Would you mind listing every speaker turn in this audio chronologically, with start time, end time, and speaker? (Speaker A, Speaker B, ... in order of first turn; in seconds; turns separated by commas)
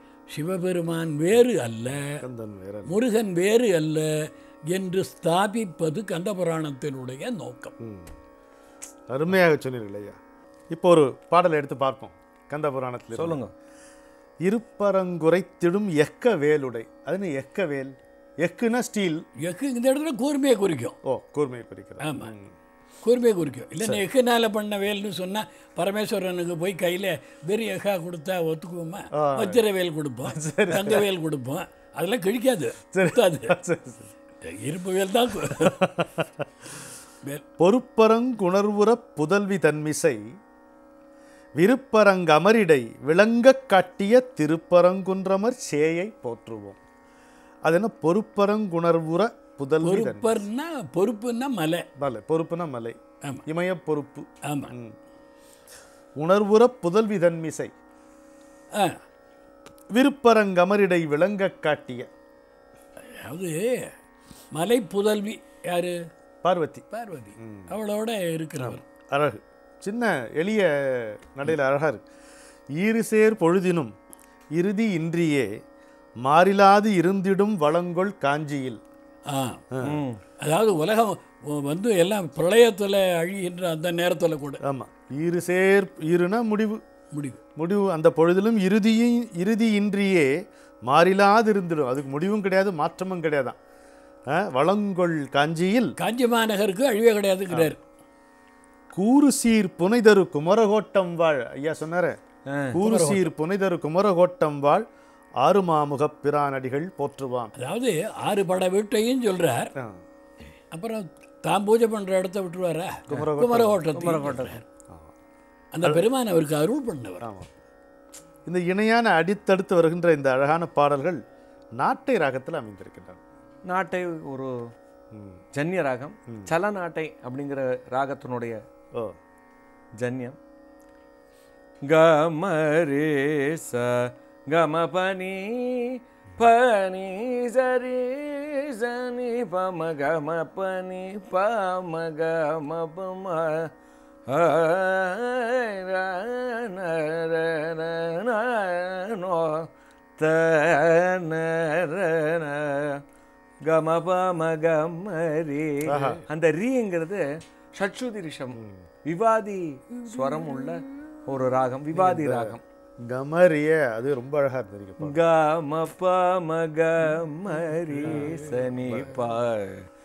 Speaker A: 0.3-2.2, Speaker B: 2.1-2.9, Speaker A: 2.9-7.7, Speaker B: 7.8-8.1, Speaker B: 9.1-10.2, Speaker B: 10.7-13.4, Speaker C: 13.1-13.5, Speaker B: 14.4-19.2, Speaker A: 19.4-21.0, Speaker B: 21.0-22.5, Speaker A: 22.0-22.3, Speaker A: 23.0-33.6, Speaker B: 29.1-29.6, Speaker B: 30.3-31.1, Speaker B: 32.9-34.1, Speaker A: 34.4-36.0, Speaker B: 35.5-36.2, Speaker B: 37.6-40.3, Speaker B: 41.6-46.8, Speaker B: 47.6-50.5, Speaker A: 49.8-51.9, Speaker B: 52.0-55.0, Speaker A: 54.5-54.7, Speaker B: 56.2-57.7, Speaker A: 58.7-59.0, Speaker B: 59.9-62.1, Speaker A: 63.2-63.9, Speaker A: 64.5-66.1, Speaker B: 66.4-66.8, Speaker A: 66.9-68.8, Speaker B: 67.4-67.7, Speaker B: 68.6-72.0, Speaker B: 72.8-73.9, Speaker B: 74.5-75.5, Speaker B: 76.2-78.8, Speaker A: 79.3-79.6, Speaker B: 79.7-80.0, Speaker C: 79.8-80.2, Speaker A: 80.4-84.6, Speaker B: 84.6-86.8, Speaker A: 87.1-87.4, Speaker B: 87.6-93.6, Speaker B: 94.3-96.0, Speaker A: 96.0-97.8, Speaker B: 99.0-102.2, Speaker C: 102.5-102.8, Speaker B: 102.7-104.9, Speaker A: 102.8-103.3, Speaker B: 105.4-107.5, Speaker A: 107.6-109.7, Speaker A: 110.7-114.6, Speaker B: 113.1-113.8, Speaker C: 114.0-114.6, Speaker A: 115.7-117.2, Speaker B: 117.2-117.5, Speaker B: 118.5-121.2, Speaker B: 121.8-123.2, Speaker C: 123.7-124.5, Speaker B: 125.1-125.4, Speaker C: 125.5-128.6, Speaker C: 130.0-130.4, Speaker C: 131.9-143.7, Speaker C: 144.3-149.7, Speaker C: 150.2-153.0, Speaker C: 153.7-157.2, Speaker B: 155.8-156.2, Speaker C: 157.8-162.6, Speaker B: 161.9-162.5, Speaker B: 163.1-165.2, Speaker C: 165.0-169.9, Speaker B: 168.1-169.1